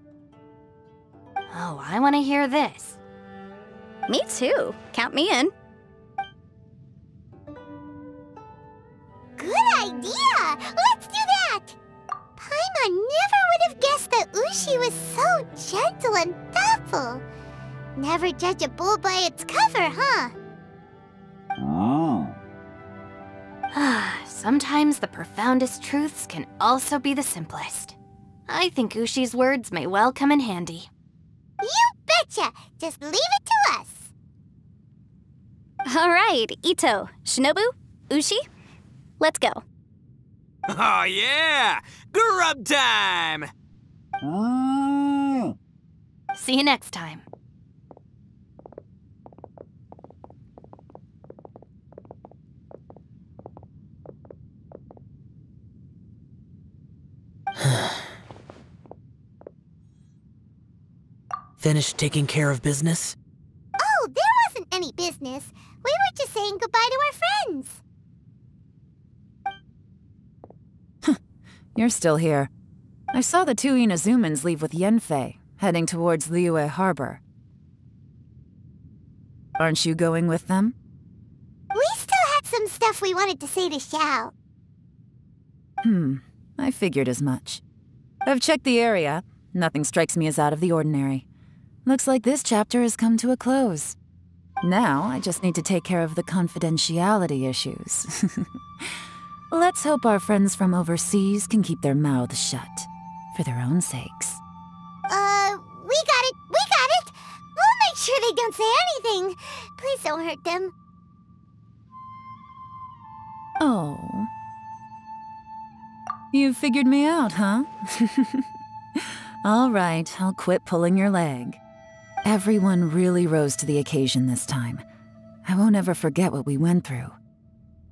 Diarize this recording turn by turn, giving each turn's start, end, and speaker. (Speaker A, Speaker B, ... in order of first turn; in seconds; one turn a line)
Speaker A: 1.5-3.0
Speaker B: 4.1-5.5
Speaker C: 9.4-11.8
Speaker C: 12.4-17.2
Speaker C: 18.0-20.4
Speaker D: 21.6-22.4
Speaker A: 23.7-28.0
Speaker A: 28.5-30.9
Speaker C: 31.6-34.1
Speaker B: 35.9-38.5
Speaker B: 39.2-39.6
Speaker D: 40.7-43.5
Speaker D: 44.2-45.5
Speaker A: 46.4-47.2
Speaker E: 57.6-58.1
Speaker E: 61.6-63.2
Speaker C: 63.8-67.8
Speaker F: 71.8-72.5
Speaker F: 73.1-77.2
Speaker F: 79.6-80.8
Speaker C: 81.7-84.3
Speaker F: 85.8-87.6
Speaker F: 88.2-91.3
Speaker F: 91.9-94.0
Speaker F: 94.6-98.9
Speaker F: 99.5-104.4
Speaker C: 105.1-110.7
Speaker F: 113.6-114.3
Speaker F: 116.3-121.6
Speaker F: 122.2-124.8
Speaker F: 125.5-127.2